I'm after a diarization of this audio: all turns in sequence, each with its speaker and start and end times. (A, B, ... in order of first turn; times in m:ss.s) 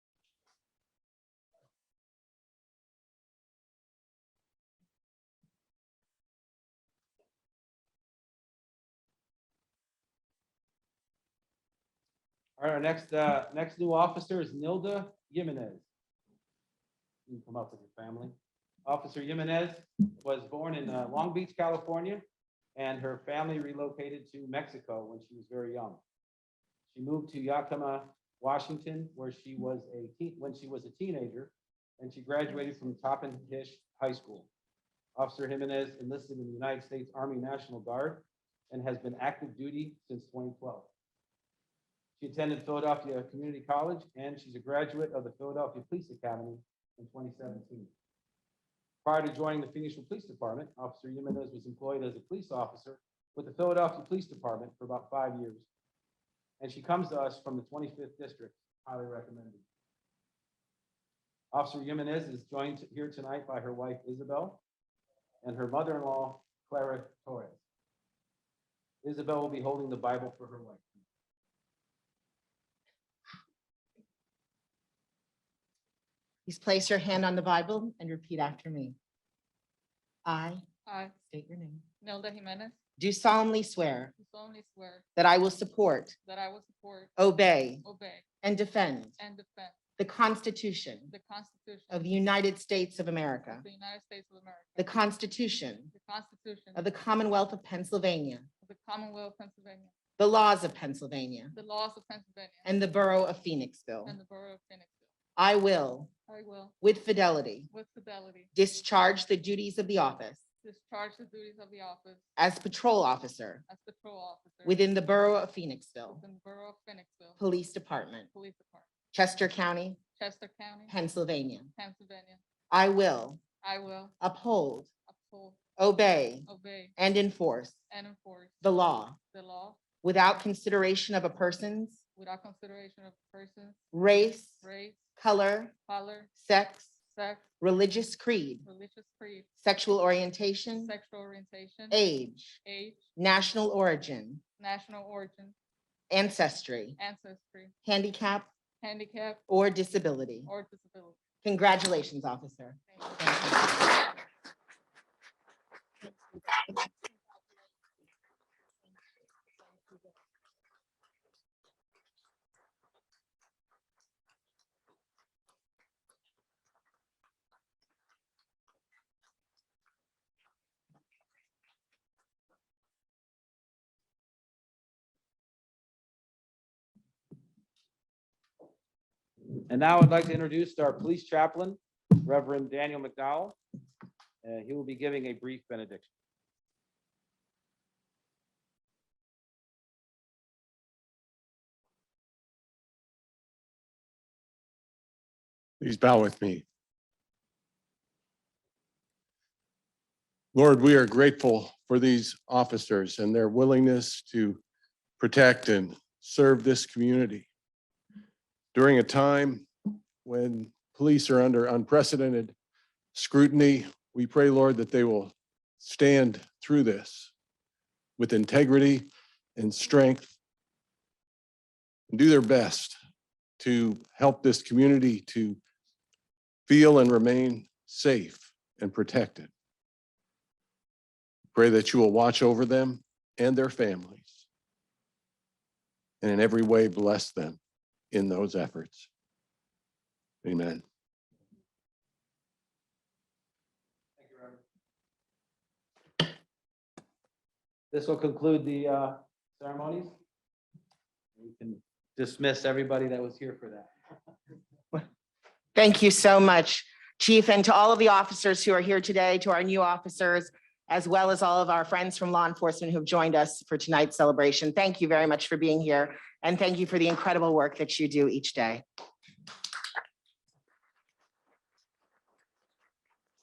0:12.6-0:15.8 A
0:17.3-0:26.0 A
0:26.9-0:34.5 A
0:35.2-0:40.9 A
0:42.2-0:47.9 A
0:49.0-0:55.6 A
0:56.6-0:59.6 A
1:01.5-1:04.6 A
1:05.4-1:07.6 A
1:09.0-1:11.0 A
1:16.4-1:18.9 B
1:20.2-1:20.6 B
1:20.8-1:21.2 C
1:21.3-1:21.8 B
1:22.0-1:22.8 C
1:23.0-1:24.1 B
1:24.1-1:25.1 C
1:25.2-1:26.2 B
1:26.2-1:27.1 C
1:27.2-1:27.8 B
1:27.8-1:28.2 C
1:28.4-1:29.2 B
1:29.2-1:29.8 C
1:30.0-1:31.1 B
1:31.1-1:32.1 C
1:31.9-1:33.6 B
1:33.4-1:35.0 C
1:34.8-1:35.9 B
1:35.9-1:36.9 C
1:36.8-1:38.5 B
1:38.6-1:39.9 C
1:40.2-1:41.5 B
1:41.5-1:42.8 C
1:42.6-1:44.1 B
1:44.0-1:45.1 C
1:45.4-1:46.1 B
1:46.3-1:46.8 C
1:46.8-1:47.7 B
1:47.7-1:48.5 C
1:48.5-1:50.4 B
1:50.6-1:52.2 C
1:52.4-1:53.6 B
1:53.6-1:54.9 C
1:54.6-1:56.2 B
1:56.0-1:57.4 C
1:57.4-1:58.3 B
1:58.3-1:58.9 C
1:59.1-2:00.0 B
2:00.2-2:01.0 C
2:00.9-2:01.7 B
2:01.7-2:02.4 C
2:02.7-2:03.4 B
2:03.6-2:04.1 C
2:04.2-2:04.9 B
2:05.1-2:05.6 C
2:05.8-2:06.4 B
2:06.4-2:07.0 C
2:07.0-2:07.8 B
2:07.9-2:09.9 C
2:08.6-2:09.2 B
2:10.0-2:12.0 B
2:12.1-2:13.8 C
2:13.9-2:14.6 B
2:14.6-2:15.1 C
2:15.2-2:15.7 B
2:15.8-2:16.4 C
2:16.4-2:16.9 B
2:17.1-2:17.5 C
2:17.6-2:18.6 B
2:18.6-2:19.5 C
2:19.6-2:20.9 B
2:20.7-2:22.0 C
2:21.9-2:22.6 B
2:22.6-2:23.1 C
2:23.2-2:24.4 B
2:24.6-2:25.5 C
2:26.1-2:27.0 B
2:27.0-2:27.7 C
2:27.8-2:28.5 B
2:28.8-2:29.4 C
2:29.5-2:30.5 B
2:30.4-2:31.2 C
2:31.4-2:33.8 B
2:32.9-2:33.6 C
2:59.7-3:03.6 A
3:04.4-3:06.1 A
3:15.8-3:16.6 D
3:20.5-3:24.6 D
3:25.2-3:27.5 D
3:28.7-3:29.7 D
3:30.2-3:32.5 D
3:33.1-3:37.3 D
3:38.2-3:40.3 D
3:42.1-3:43.0 D
3:43.6-3:45.6 D
3:46.7-3:49.5 D
3:51.5-3:54.4 D
3:56.2-3:57.6 D
3:58.1-3:59.1 D
4:00.4-4:00.8 D
4:04.2-4:04.6 A
4:07.9-4:10.2 A
4:11.4-4:13.9 A
4:15.7-4:28.8 B